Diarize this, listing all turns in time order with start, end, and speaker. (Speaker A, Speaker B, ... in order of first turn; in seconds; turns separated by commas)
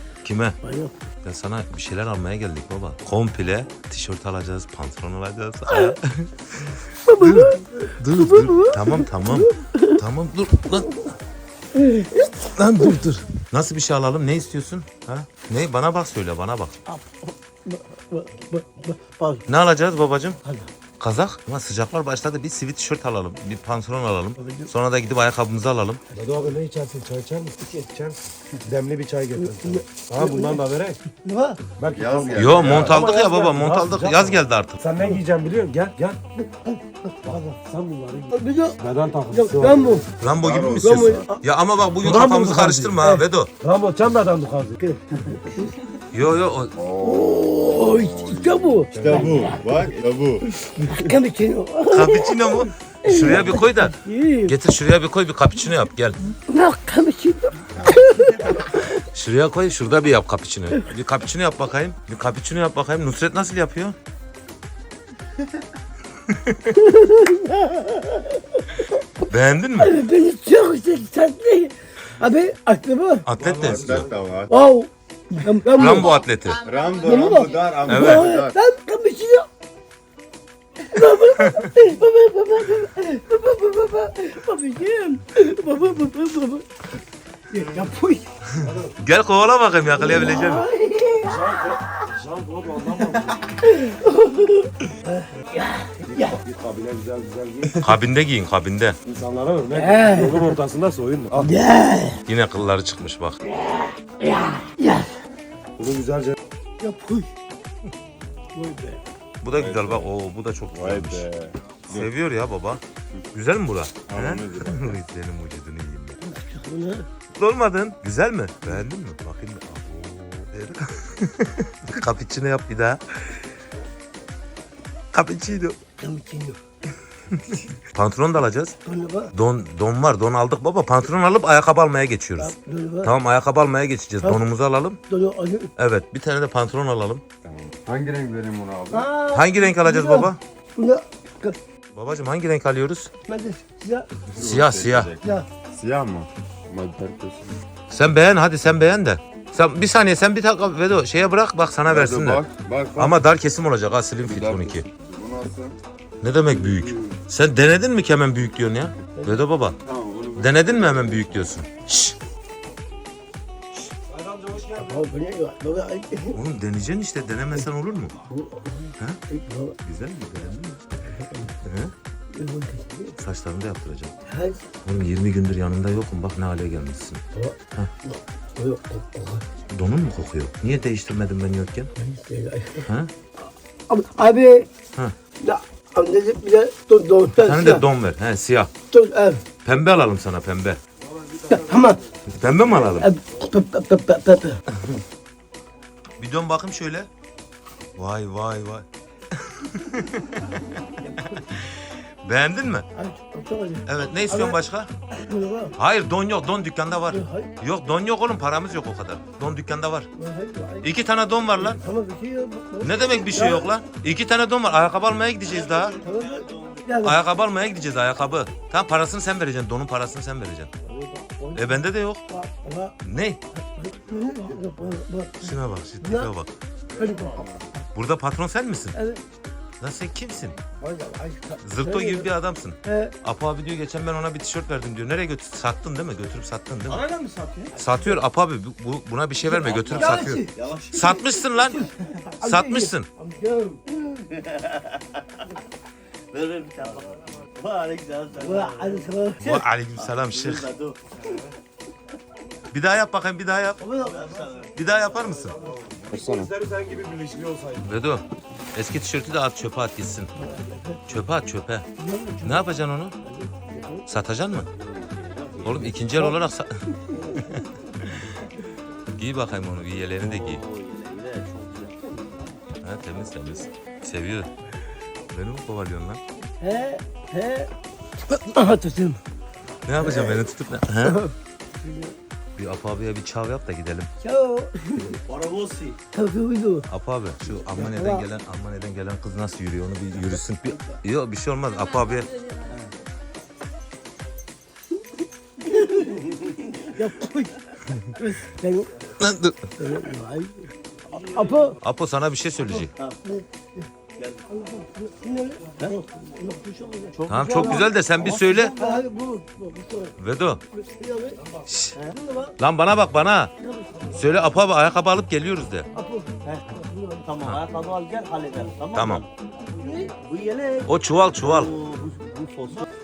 Speaker A: 0.2-0.6, Speaker B: 0.6-0.9, Speaker A: 1.2-11.0, Speaker B: 5.7-5.9, Speaker B: 7.0-10.0, Speaker B: 10.7-11.1, Speaker B: 11.7-13.1, Speaker A: 12.4-16.7, Speaker B: 16.9-19.4, Speaker A: 19.5-20.4, Speaker B: 20.4-20.7, Speaker A: 21.0-26.0, Speaker B: 24.4-24.7, Speaker C: 26.1-31.0, Speaker B: 27.6-27.9, Speaker B: 29.4-31.6, Speaker C: 31.8-36.2, Speaker D: 31.9-33.0, Speaker A: 32.3-34.8, Speaker B: 36.4-37.6, Speaker C: 37.2-40.0, Speaker B: 38.3-40.1, Speaker A: 40.2-43.5, Speaker D: 40.4-41.3, Speaker B: 40.8-41.4, Speaker C: 42.0-43.0, Speaker B: 43.0-43.2, Speaker C: 43.6-44.8, Speaker B: 44.8-45.8, Speaker A: 46.1-46.7, Speaker D: 46.7-50.5, Speaker B: 47.0-49.9, Speaker C: 48.9-49.4, Speaker B: 50.5-54.5, Speaker A: 51.9-56.2, Speaker B: 56.3-59.0, Speaker A: 59.1-64.0, Speaker A: 66.5-66.7, Speaker B: 66.7-73.3, Speaker A: 69.3-69.9, Speaker A: 73.2-74.1, Speaker C: 73.3-74.1, Speaker D: 73.6-74.5, Speaker B: 74.5-76.2, Speaker A: 75.7-76.7, Speaker D: 76.6-78.5, Speaker B: 76.9-79.5, Speaker A: 77.9-78.3, Speaker B: 80.8-86.7, Speaker A: 81.4-81.7, Speaker B: 87.5-88.3, Speaker C: 88.6-89.0, Speaker A: 88.6-90.7, Speaker B: 90.0-92.1, Speaker C: 91.2-93.4, Speaker B: 93.3-96.4, Speaker C: 96.0-97.9, Speaker A: 97.8-99.0, Speaker C: 99.0-101.5, Speaker B: 99.7-100.5, Speaker B: 101.4-102.2, Speaker A: 102.2-103.4, Speaker B: 103.5-105.1, Speaker C: 105.8-106.3, Speaker B: 106.8-107.3, Speaker B: 108.5-109.0, Speaker A: 109.4-111.2, Speaker D: 109.5-110.1, Speaker D: 110.7-112.1, Speaker A: 111.9-112.8, Speaker A: 113.3-116.2, Speaker D: 114.0-115.0, Speaker B: 116.2-117.0, Speaker A: 117.4-123.3, Speaker A: 125.1-125.8, Speaker B: 126.0-126.6, Speaker A: 127.3-128.7, Speaker B: 128.8-129.3, Speaker A: 129.3-135.0, Speaker B: 132.4-133.1, Speaker B: 135.1-135.7, Speaker A: 135.8-137.2, Speaker D: 137.4-139.1, Speaker B: 138.9-141.6, Speaker A: 139.3-140.4, Speaker A: 141.9-143.1, Speaker B: 143.3-144.1, Speaker D: 144.3-147.6, Speaker A: 144.4-145.1, Speaker A: 147.9-152.4, Speaker D: 151.9-153.2, Speaker A: 153.0-154.9, Speaker D: 154.2-155.8, Speaker A: 156.2-159.8, Speaker D: 156.5-157.2, Speaker B: 159.2-159.4, Speaker D: 159.8-161.5, Speaker A: 160.4-162.2, Speaker C: 164.1-165.0, Speaker B: 164.8-166.4, Speaker A: 166.3-168.1, Speaker B: 168.3-169.8, Speaker A: 169.8-170.8, Speaker B: 171.0-171.5, Speaker A: 171.6-171.9, Speaker B: 172.3-173.2, Speaker A: 173.2-174.1, Speaker B: 174.3-174.6, Speaker A: 174.8-177.2, Speaker B: 177.3-179.4, Speaker A: 179.7-181.9, Speaker B: 182.0-182.9, Speaker A: 182.8-183.1, Speaker B: 183.9-184.7, Speaker B: 185.4-187.8, Speaker A: 187.4-188.7, Speaker B: 188.9-189.4, Speaker A: 189.6-190.8, Speaker C: 191.1-192.0, Speaker B: 191.5-192.0, Speaker A: 192.3-193.1, Speaker B: 192.7-194.6, Speaker A: 194.7-195.0, Speaker A: 196.2-197.1, Speaker A: 197.9-202.8, Speaker B: 200.9-201.4, Speaker B: 202.9-204.6, Speaker A: 203.8-204.9, Speaker B: 205.1-205.8, Speaker A: 205.8-210.1, Speaker B: 207.1-207.5, Speaker B: 210.2-210.9, Speaker A: 210.8-211.8, Speaker B: 211.5-213.8, Speaker A: 212.8-216.0, Speaker E: 215.4-217.0, Speaker B: 216.0-217.2, Speaker A: 217.0-220.7, Speaker B: 220.9-223.0, Speaker A: 221.5-222.2, Speaker A: 223.0-223.4, Speaker B: 223.6-226.3, Speaker A: 225.4-226.5, Speaker B: 226.9-227.5, Speaker D: 227.0-227.6, Speaker A: 227.9-229.0, Speaker B: 228.9-229.2, Speaker A: 229.8-230.6, Speaker B: 230.8-232.3, Speaker A: 231.6-237.1, Speaker B: 232.8-233.1, Speaker E: 236.9-237.9, Speaker A: 237.8-241.8, Speaker E: 239.5-241.8, Speaker B: 239.8-240.5, Speaker B: 241.6-243.8, Speaker A: 242.4-243.1, Speaker E: 244.1-245.4, Speaker E: 246.3-249.1, Speaker B: 248.4-249.6, Speaker A: 249.4-250.7, Speaker E: 249.9-251.0, Speaker A: 252.7-253.9, Speaker B: 253.8-254.3, Speaker E: 254.0-254.7, Speaker A: 254.7-255.6, Speaker C: 255.5-257.9, Speaker D: 256.1-256.5, Speaker A: 257.8-260.3, Speaker B: 260.4-261.0, Speaker A: 261.1-261.9, Speaker B: 262.0-264.0, Speaker A: 262.4-263.1, Speaker A: 264.1-264.7, Speaker E: 264.6-266.3, Speaker A: 265.6-266.7, Speaker B: 267.1-268.3, Speaker A: 267.3-268.2, Speaker A: 269.1-270.6, Speaker E: 270.2-272.3, Speaker A: 272.8-274.5, Speaker A: 275.3-276.2, Speaker B: 276.6-277.7, Speaker B: 278.3-279.2, Speaker A: 279.9-281.2, Speaker B: 280.0-280.5, Speaker B: 281.0-282.1, Speaker A: 282.6-284.1, Speaker B: 284.2-285.2, Speaker E: 285.2-286.0, Speaker B: 286.1-286.9, Speaker A: 286.9-292.5, Speaker B: 287.7-288.3, Speaker B: 290.6-291.0, Speaker B: 295.7-296.1, Speaker E: 296.4-296.6, Speaker B: 296.9-297.6, Speaker B: 298.1-298.9, Speaker A: 299.2-299.7, Speaker B: 299.8-300.7, Speaker B: 301.2-301.8, Speaker A: 301.8-302.9, Speaker B: 303.2-303.9, Speaker E: 304.2-304.4, Speaker B: 304.5-307.9, Speaker E: 307.1-308.9, Speaker A: 307.3-308.8, Speaker B: 308.7-310.1, Speaker A: 310.2-310.6, Speaker B: 310.7-311.4, Speaker A: 311.6-311.9, Speaker B: 312.1-312.6, Speaker A: 312.6-313.5, Speaker B: 313.6-314.2, Speaker A: 314.1-315.9, Speaker B: 315.9-317.2, Speaker E: 317.2-319.3, Speaker A: 318.9-319.2, Speaker B: 319.8-320.1, Speaker E: 320.2-322.9, Speaker A: 320.8-321.7